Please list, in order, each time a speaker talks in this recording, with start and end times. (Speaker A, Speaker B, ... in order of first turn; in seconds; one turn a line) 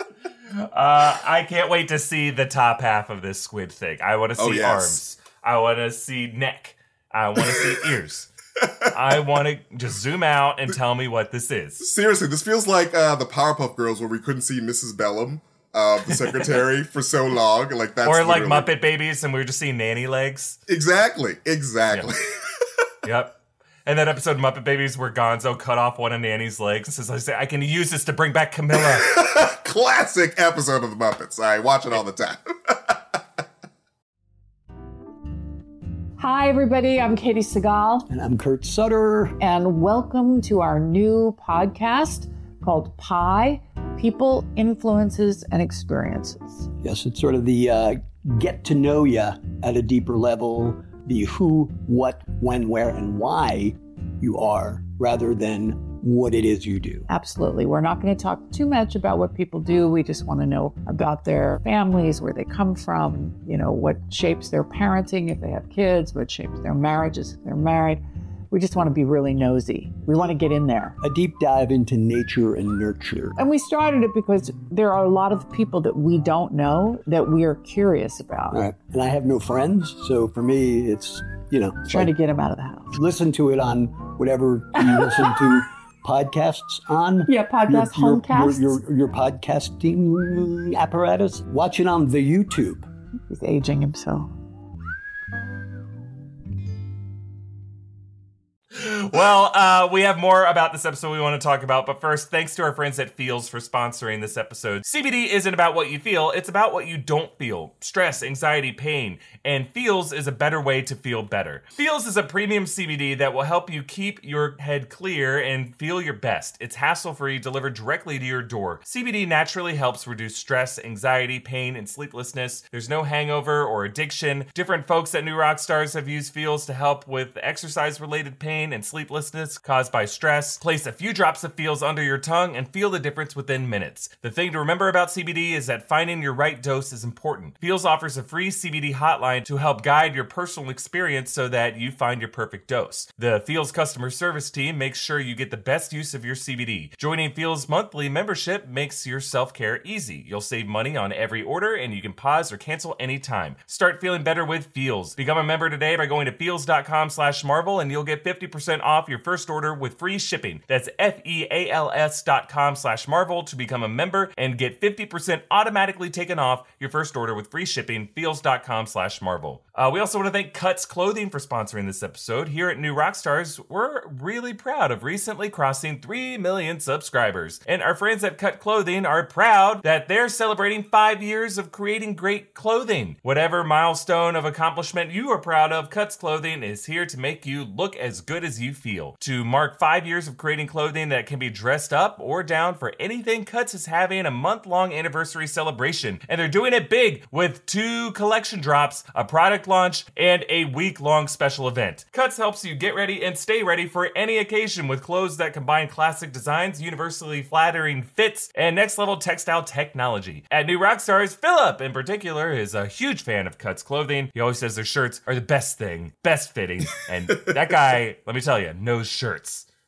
Speaker A: 0.6-8.3
Speaker B: 4.4-5.0
Speaker B: 8.6-8.9
Speaker A: 8.9-11.8
Speaker B: 11.8-18.7
Speaker A: 16.1-16.5
Speaker A: 18.0-20.6
Speaker B: 20.7-22.5
Speaker A: 21.9-22.1
Speaker A: 23.0-29.1
Speaker B: 28.7-33.2
Speaker C: 36.2-38.1
Speaker D: 38.1-39.4
Speaker C: 39.4-46.7
Speaker D: 46.8-57.0
Speaker C: 57.1-71.0
Speaker D: 71.0-73.4
Speaker C: 73.4-78.6
Speaker D: 78.5-82.1
Speaker C: 81.9-83.0
Speaker D: 83.0-92.9
Speaker C: 84.9-85.3
Speaker C: 87.2-88.8
Speaker C: 93.3-94.3
Speaker A: 98.7-219.7